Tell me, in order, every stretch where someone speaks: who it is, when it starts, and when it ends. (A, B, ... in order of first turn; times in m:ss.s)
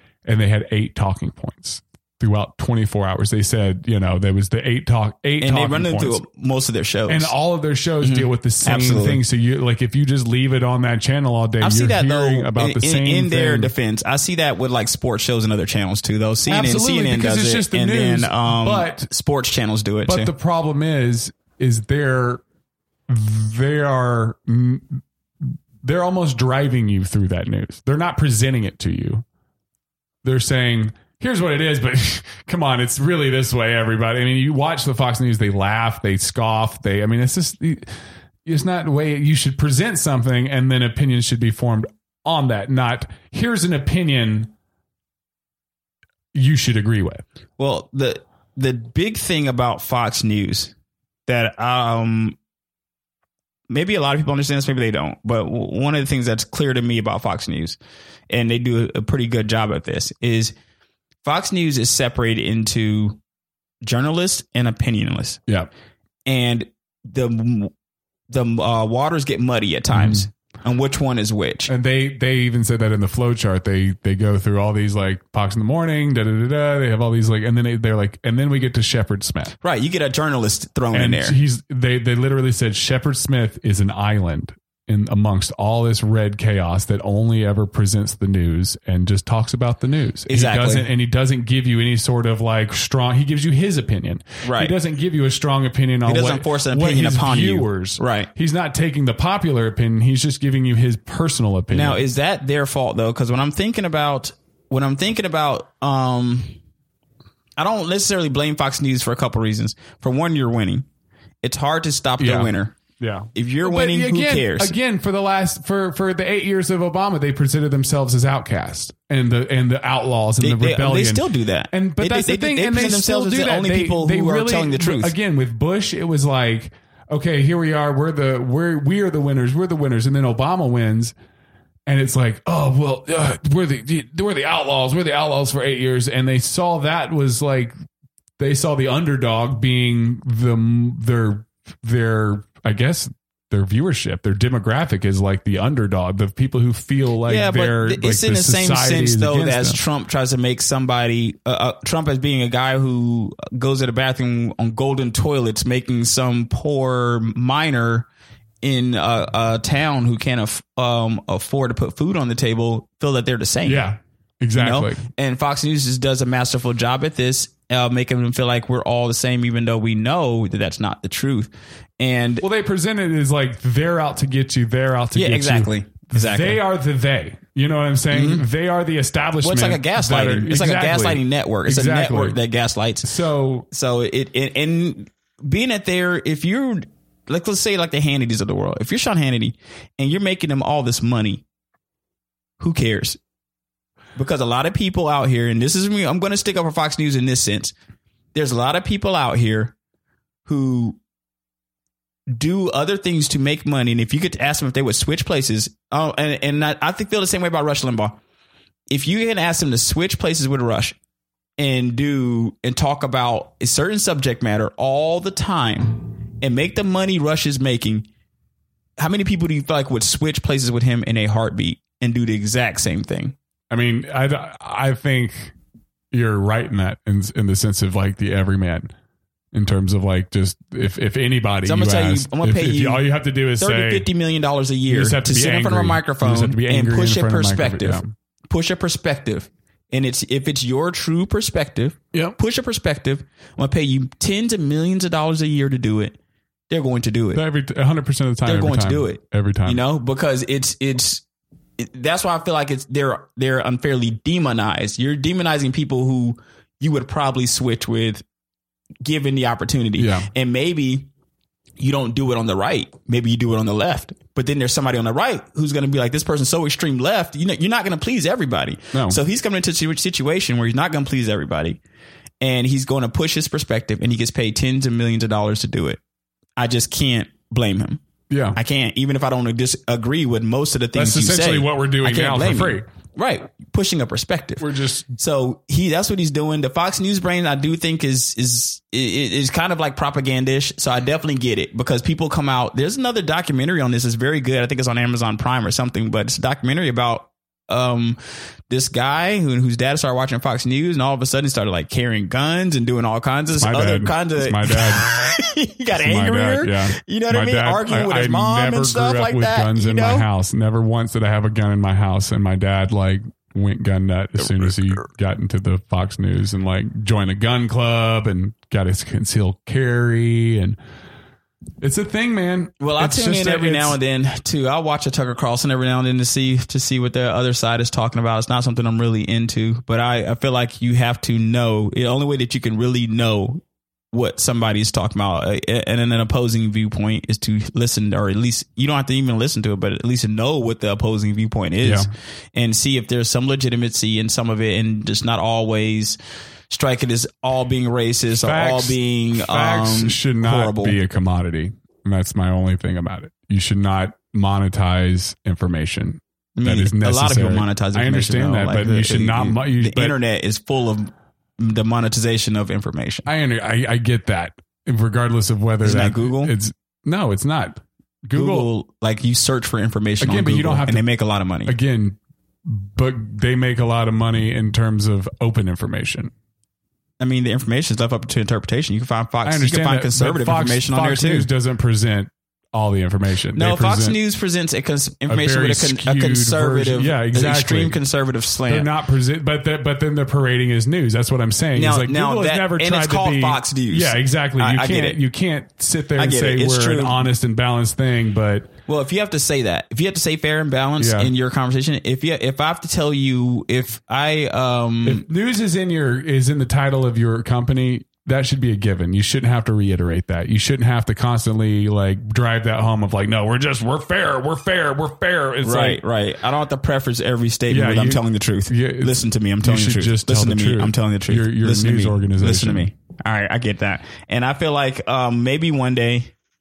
0:00.2-0:06.2 A
0:05.4-0:07.3 B
0:07.1-0:13.7 A
0:08.0-0:09.2 B
0:11.6-0:20.3 B
0:16.5-0:19.1 A
0:20.1-0:22.4 A
0:23.1-0:29.2 A
0:30.2-0:37.9 A
0:38.4-0:44.5 A
0:46.3-0:47.2 A
0:47.6-0:50.7 B
0:51.3-0:52.4 B
0:53.7-0:57.8 B
0:58.3-1:00.5 B
1:01.2-1:03.2 B
1:03.8-1:05.4 B
1:06.3-1:07.7 B
1:08.3-1:11.7 B
1:09.9-1:10.2 A
1:11.7-1:19.5 A
1:19.6-1:21.4 B
1:20.9-1:42.0 A
1:30.3-1:30.9 B
1:34.4-1:34.7 B
1:36.0-1:38.3 B
1:41.7-1:46.6 B
1:47.6-1:50.8 B
1:51.4-1:52.8 B
1:52.2-2:11.1 A
1:53.3-1:54.7 B
2:00.4-2:05.1 B
2:11.8-2:17.7 A
2:18.4-2:29.8 A
2:27.2-2:38.1 B
2:38.6-2:43.8 B
2:43.6-2:45.0 A
2:44.6-2:52.4 B
2:52.4-3:02.4 A
2:55.1-2:56.6 B
2:58.1-2:58.4 B
2:59.4-3:03.1 B
3:03.0-3:03.7 A
3:03.7-3:11.4 B
3:12.6-3:13.2 B
3:14.2-3:17.7 B
3:18.3-3:19.8 B
3:20.4-3:21.0 B
3:22.3-3:28.2 B
3:28.9-3:31.0 B
3:31.6-3:38.1 B
3:39.0-3:43.3 B
3:43.7-3:45.5 A
3:46.1-3:48.9 A
3:49.5-3:54.1 A
3:51.6-3:53.0 B
3:53.6-4:06.2 B
3:54.9-3:58.1 A
4:06.7-4:07.4 B
4:07.3-4:09.8 A
4:08.4-4:11.2 B
4:11.8-4:18.2 B
4:19.0-4:21.1 B
4:20.0-4:20.3 A
4:21.8-4:31.8 B
4:28.9-4:29.2 A
4:32.4-4:36.0 B
4:36.6-4:38.0 B
4:38.3-4:38.6 A
4:38.5-4:58.2 B
4:40.9-4:42.8 A
4:44.6-4:45.1 A
4:58.7-5:10.3 B
5:03.6-5:05.1 A
5:05.9-5:20.8 A
5:21.8-5:24.0 A
5:22.8-5:46.2 B
5:41.8-5:42.1 A
5:46.7-5:51.0 B
5:48.4-6:00.1 A
5:56.6-6:03.3 B
6:03.2-6:08.7 A
6:05.8-6:06.5 B
6:08.3-6:11.7 B
6:10.2-6:11.0 A
6:11.7-6:16.3 A
6:17.2-6:21.5 B
6:19.4-6:24.2 A
6:23.5-6:28.9 B
6:25.3-6:28.0 A
6:28.7-6:38.7 A
6:31.7-6:35.2 B
6:36.2-6:37.2 B
6:38.9-6:45.2 B
6:41.0-6:41.3 A
6:45.0-6:56.0 A
6:55.6-7:06.3 B
6:57.7-7:02.9 A